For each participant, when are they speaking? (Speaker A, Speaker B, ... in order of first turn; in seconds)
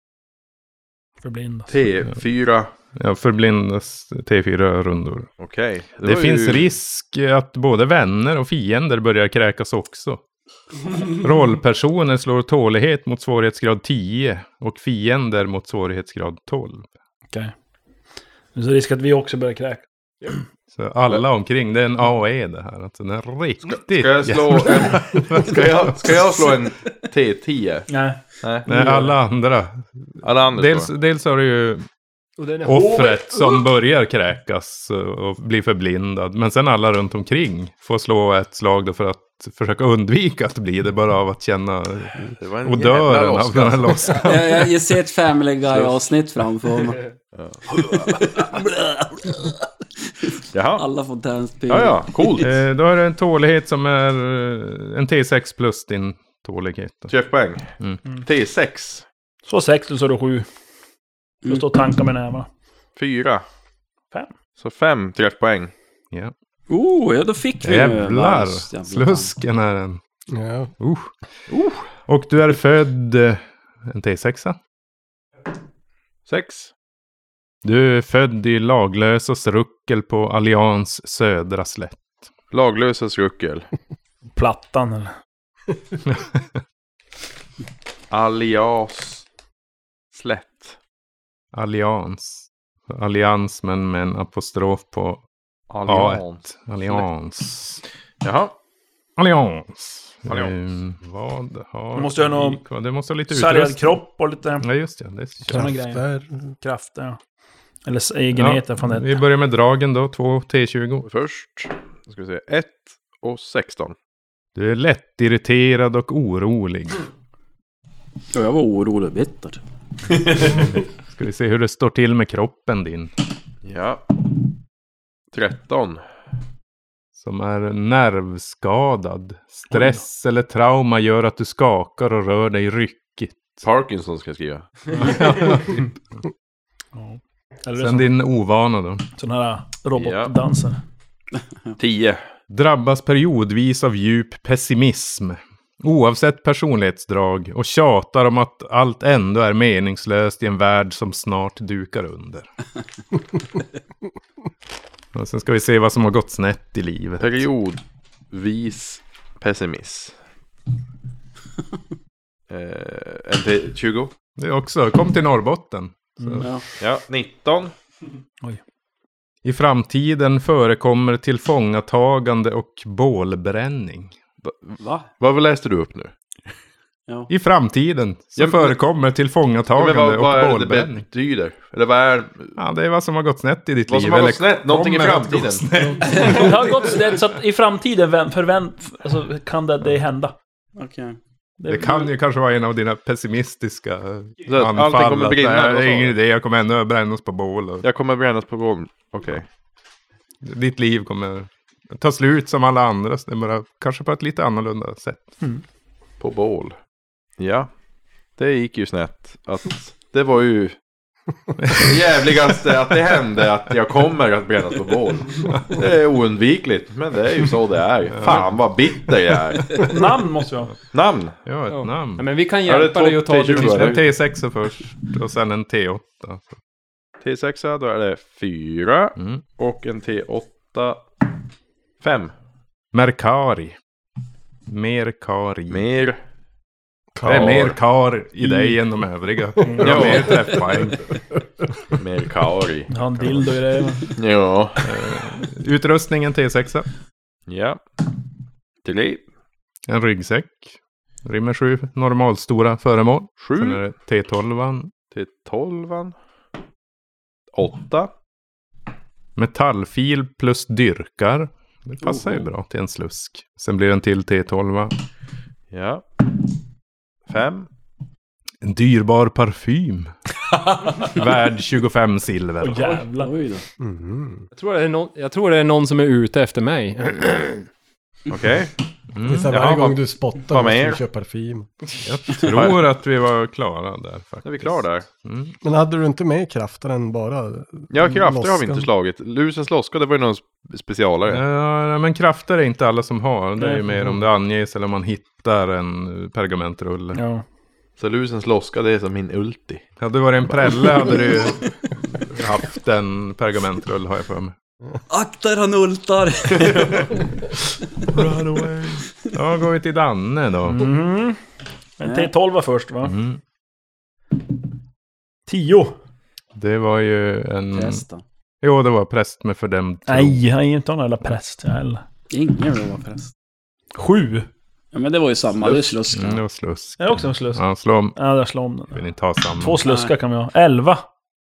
Speaker A: 1.2-1.8, 18.5-19.8, 27.9-29.1, 59.5-60.5, 61.5-62.5, 84.3-85.1, 101.9-102.6, 103.3-104.7, 105.5-106.0, 106.6-107.2, 107.8-109.2, 136.9-138.1, 139.2-140.8, 166.2-166.4, 185.8-190.3, 191.6-192.1, 219.8-220.7, 239.6-240.1, 242.9-244.1, 272.6-273.3, 293.6-294.2, 297.1-297.4, 310.6-311.4, 312.0-313.1, 315.5-315.9, 320.1-322.0, 323.9-324.5, 327.0-327.6, 328.1-329.0, 329.6-331.0
Speaker B: 1.7-2.7, 5.4-6.7, 23.7-27.9, 28.4-28.7, 30.2-30.9, 42.4-44.1, 45.7-46.0, 47.3-47.6, 50.5-50.9, 51.7-52.5, 57.1-59.0, 63.0-63.5, 64.6-65.7, 71.5-71.8, 76.3-76.7, 82.5-83.7, 88.1-89.2, 90.1-90.8, 95.7-97.0, 98.2-98.5, 100.2-100.6, 111.0-114.0, 123.6-124.0, 125.3-126.0, 133.6-135.0, 139.9-140.3, 141.8-142.2, 157.2-160.2, 162.5-164.1, 166.8-167.7, 174.4-176.1, 178.4-178.7, 179.7-182.6, 183.9-185.7, 194.5-196.2, 197.8-199.5, 206.2-206.8, 207.4-207.7, 208.4-210.8, 211.7-219.9, 220.9-221.3, 222.6-224.0, 227.2-231.0, 232.0-232.3, 235.7-236.2, 237.2-237.8, 239.8-240.6, 241.9-242.9, 244.2-244.8, 247.5-247.8, 248.8-249.2, 253.4-253.8, 255.1-256.1, 257.5-258.1, 265.7-266.1, 267.2-267.7, 278.3-278.7, 279.5-281.0, 282.3-282.8, 284.4-285.1, 287.9-291.4, 298.0-299.8, 300.4-301.1
Speaker C: 2.9-5.3, 6.0-10.2, 11.0-16.9, 20.7-26.2, 28.7-31.9, 32.6-44.7, 52.4-57.1, 67.6-70.0, 70.8-71.1, 72.1-74.6, 77.6-82.0, 86.1-86.4, 91.5-95.2, 95.8-97.8, 99.2-104.0, 104.6-105.7, 108.3-111.1, 114.5-117.0, 121.1-123.1, 127.1-133.6, 134.9-135.8, 137.8-139.0, 142.5-152.5, 155.1-157.5, 164.4-166.5, 169.4-174.2, 177.3-181.1, 182.6-186.5, 191.7-197.8, 200.4-205.3, 211.6-213.3, 215.4-215.8, 218.1-218.6, 221.4-222.2, 223.5-226.5, 229.2-229.4, 232.9-233.8, 234.7-235.8, 237.2-241.0, 243.2-243.4, 244.8-246.9, 249.9-254.9, 259.4-264.9, 268.6-270.1, 271.0-273.0, 279.1-279.5, 282.0-285.6, 291.3-297.2, 300.0-304.5, 308.0-310.9, 313.0-313.4, 316.5-318.0, 318.6-320.4, 326.1-328.2, 328.9-329.8
Speaker D: 32.4-33.4, 221.7-224.0, 274.5-277.6
Speaker E: 44.2-47.0, 47.7-49.7, 50.2-52.4, 66.7-69.3, 118.3-119.6, 174.8-175.1, 186.2-186.4, 190.8-191.2, 273.2-273.6, 305.1-307.4, 312.0-312.3, 317.7-318.2, 322.3-323.3, 324.9-326.4, 329.8-330.1
Speaker F: 70.3-70.7, 105.5-106.5, 237.1-237.6, 273.8-274.4, 279.2-281.7, 285.6-288.9